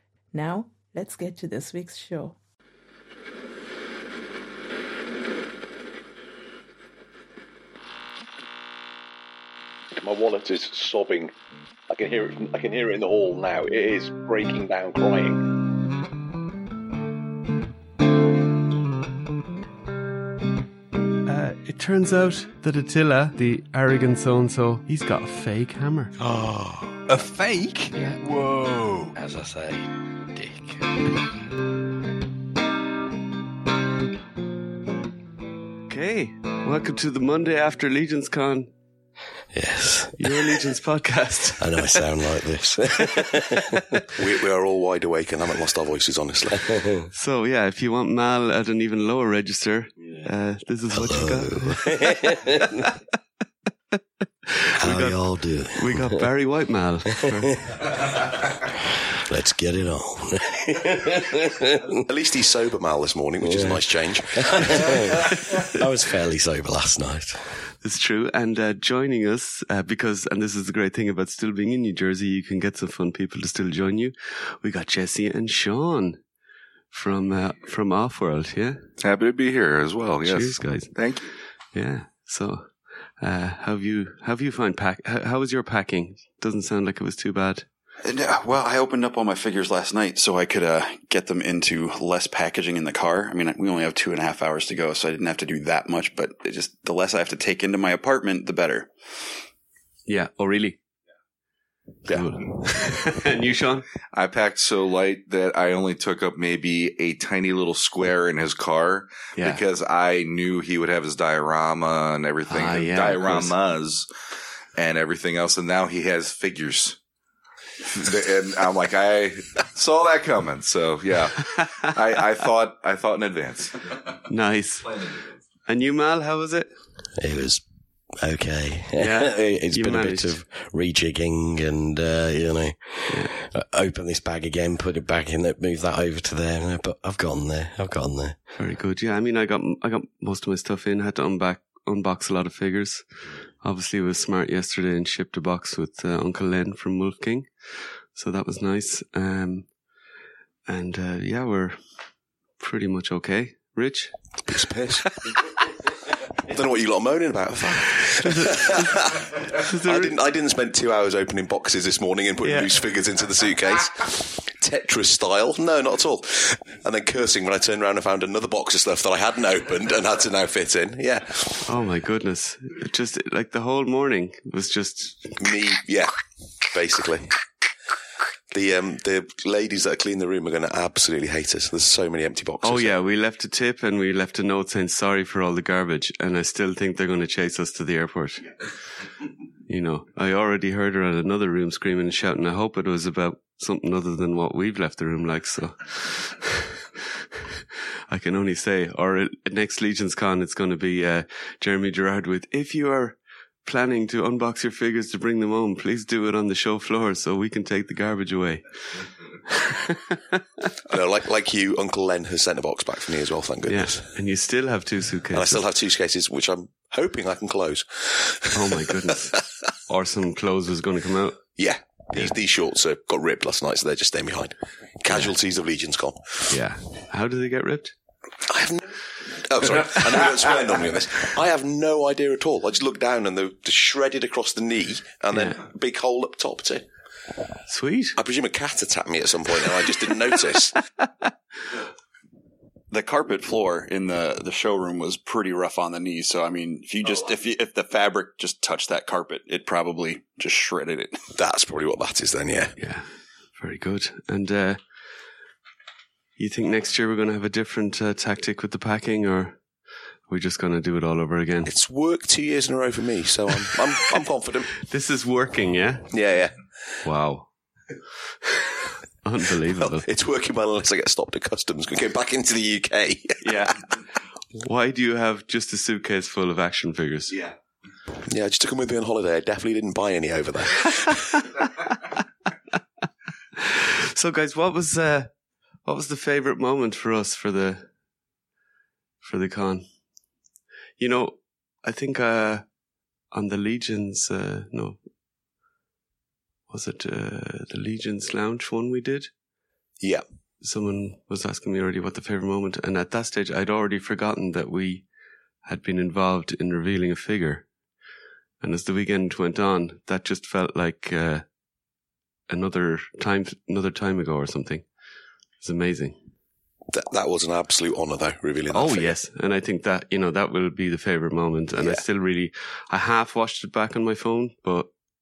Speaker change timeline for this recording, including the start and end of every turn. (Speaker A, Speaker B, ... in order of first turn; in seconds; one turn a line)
Speaker A: 0.3-2.4
Speaker B: 9.9-11.3
Speaker B: 11.9-15.5
Speaker C: 21.2-26.1
Speaker D: 27.1-29.1
Speaker E: 29.1-31.0
Speaker C: 35.9-38.7
Speaker E: 39.5-40.6
Speaker C: 40.2-42.1
Speaker E: 41.6-44.0
Speaker F: 44.1-46.8
Speaker E: 46.6-47.1
Speaker C: 47.1-52.1
Speaker E: 50.9-52.6
Speaker E: 54.8-56.3
Speaker C: 54.8-55.2
Speaker C: 55.7-57.5
Speaker E: 57.1-57.5
Speaker E: 59.3-62.0
Speaker F: 62.0-64.5
Speaker E: 63.4-67.5
Speaker C: 67.8-76.2
Speaker C: 76.9-78.8
Speaker G: 79.0-81.3
Speaker C: 80.2-81.0
Speaker C: 81.7-87.7
Speaker H: 88.0-98.9
Speaker C: 100.1-100.8
Speaker C: 102.1-103.9
Speaker G: 104.1-114.1
Speaker C: 112.5-113.5
Speaker G: 114.8-117.0
Speaker G: 117.8-123.8
Speaker C: 124.3-125.0
Speaker C: 125.7-126.7
Speaker E: 127.2-127.6
Speaker E: 128.2-138.4
Speaker C: 128.9-130.4
Speaker C: 138.6-143.0
Speaker C: 143.6-147.5
Speaker C: 148.1-149.7
Speaker C: 150.7-151.8
Speaker C: 152.6-154.1
Speaker F: 154.5-155.1
Speaker F: 156.5-171.7
Speaker C: 158.2-160.1
Speaker C: 162.4-162.7
Speaker C: 171.7-175.4
Speaker F: 175.4-176.1
Speaker F: 176.6-177.3
Speaker F: 178.5-182.9
Speaker C: 182.6-188.5
Speaker C: 189.7-196.7
Speaker C: 198.1-208.6
Speaker C: 209.5-210.2
Speaker F: 210.9-214.1
Speaker C: 213.7-215.6
Speaker F: 215.3-219.0
Speaker C: 218.5-221.5
Speaker F: 221.6-226.6
Speaker C: 226.5-227.9
Speaker F: 228.5-236.8
Speaker C: 229.7-230.3
Speaker C: 235.3-235.6
Speaker C: 237.7-238.2
Speaker F: 238.2-240.8
Speaker H: 242.9-251.2
Speaker F: 251.3-252.7
Speaker C: 252.8-254.8
Speaker C: 256.4-259.6
Speaker C: 260.3-261.7
Speaker F: 261.6-264.7
Speaker C: 264.9-266.1
Speaker F: 266.1-266.6
Speaker C: 267.0-267.5
Speaker C: 269.2-270.0
Speaker F: 269.7-273.8
Speaker C: 273.4-273.7
Speaker C: 274.5-277.5
Speaker F: 278.2-281.2
Speaker C: 283.6-285.3
Speaker C: 285.8-287.9
Speaker C: 289.2-289.8
Speaker C: 291.0-292.6
Speaker C: 293.3-295.0
Speaker C: 296.7-299.3
Speaker C: 300.6-305.0
Speaker C: 305.6-307.7
Speaker C: 308.6-311.4
Speaker C: 312.5-314.9
Speaker C: 315.6-316.1
Speaker F: 316.9-319.1
Speaker C: 318.7-324.9
Speaker F: 321.8-322.0